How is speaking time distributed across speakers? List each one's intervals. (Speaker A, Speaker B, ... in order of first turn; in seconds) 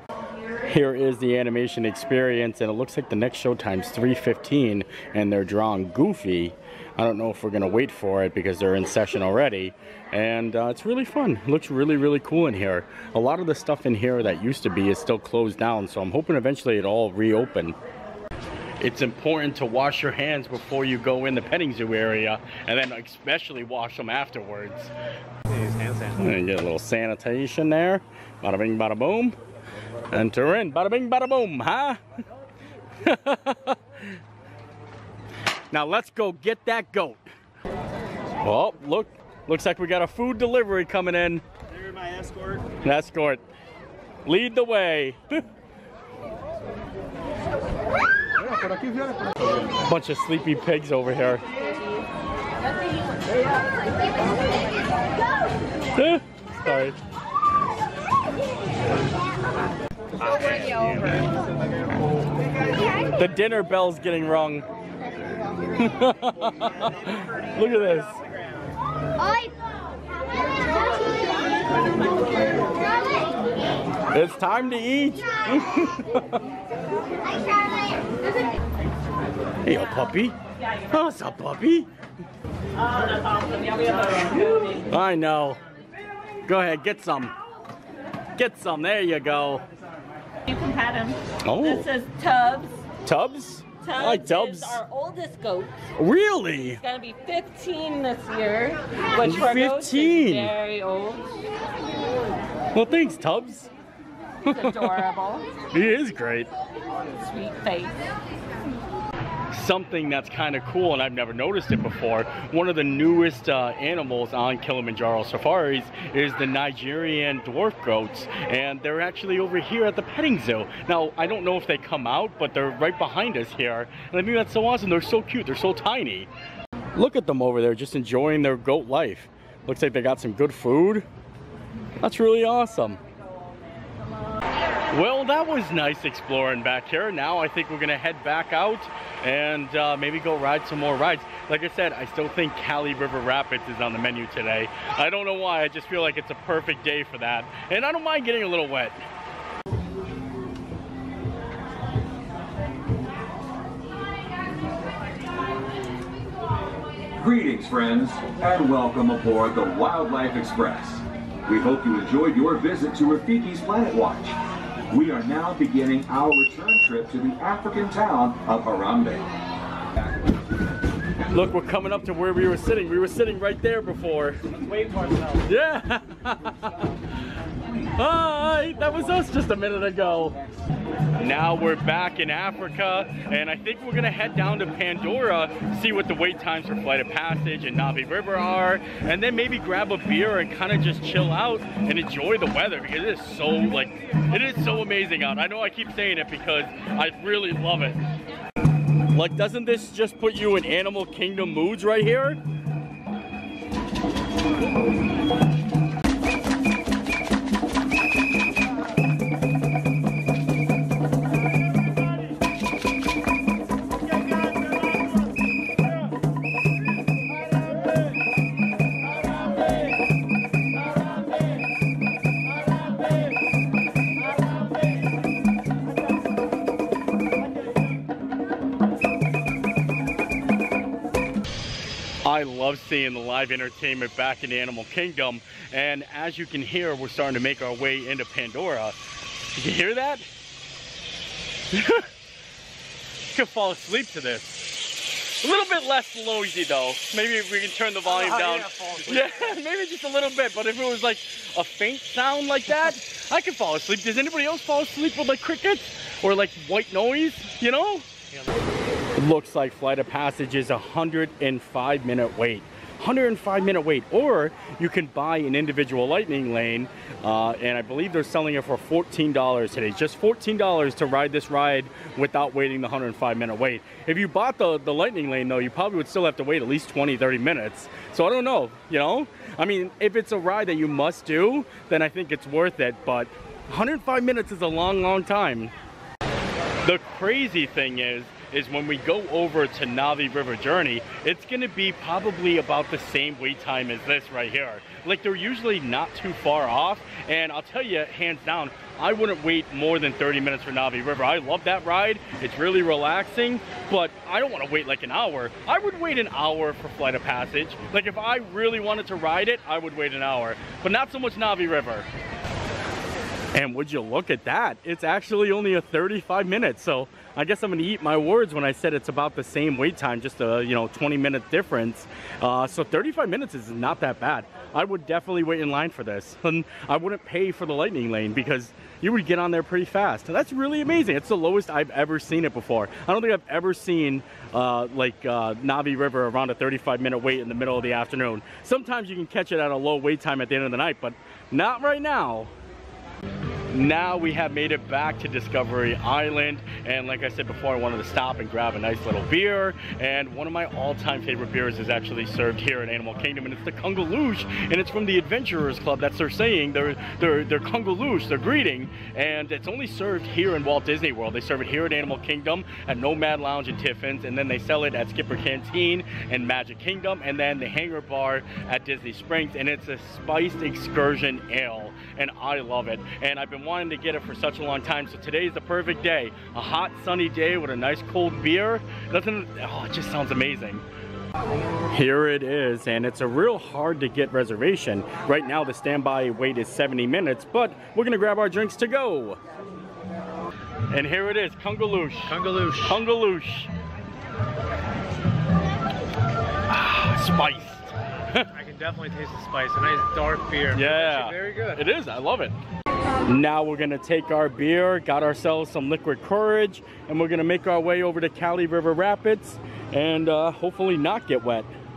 Speaker A: 0.7-17.8, 18.8-24.9, 26.2-29.4, 30.1-32.0, 33.0-34.1, 35.7-37.2, 38.4-41.5, 42.7-43.4, 44.3-45.4, 48.4-48.9, 49.8-51.5, 56.0-57.0, 63.2-64.7, 65.7-68.2, 74.1-76.4, 79.6-80.4, 80.9-81.9, 84.9-85.6, 86.5-87.3, 88.4-89.6, 91.4-91.9, 93.0-94.8, 96.0-96.8, 99.2-100.5, 102.7-103.7, 104.5-105.0, 105.7-106.5, 109.5-126.3, 127.0-131.1, 132.0-133.0, 134.9-149.0, 171.3-174.4, 175.5-176.9, 178.0-180.4, 181.2-198.0, 199.1-202.4, 232.2-239.0, 239.6-240.3, 241.7-242.1, 243.3-244.8, 245.4-258.1, 259.2-285.7, 286.8-312.1, 313.5-342.5, 343.7-380.9, 381.9-389.4, 390.9-393.7, 396.7-398.5, 400.7-402.6, 403.2-411.7
Speaker B: 25.5-26.3, 60.2-62.0, 174.6-175.5, 248.1-249.6, 392.3-393.0, 398.5-401.8
Speaker C: 42.1-42.5, 48.6-49.3, 157.2-164.4, 164.9-169.3
Speaker D: 82.8-84.8, 90.5-92.8, 93.8-95.9, 96.8-101.3, 104.5-105.5, 107.1-108.2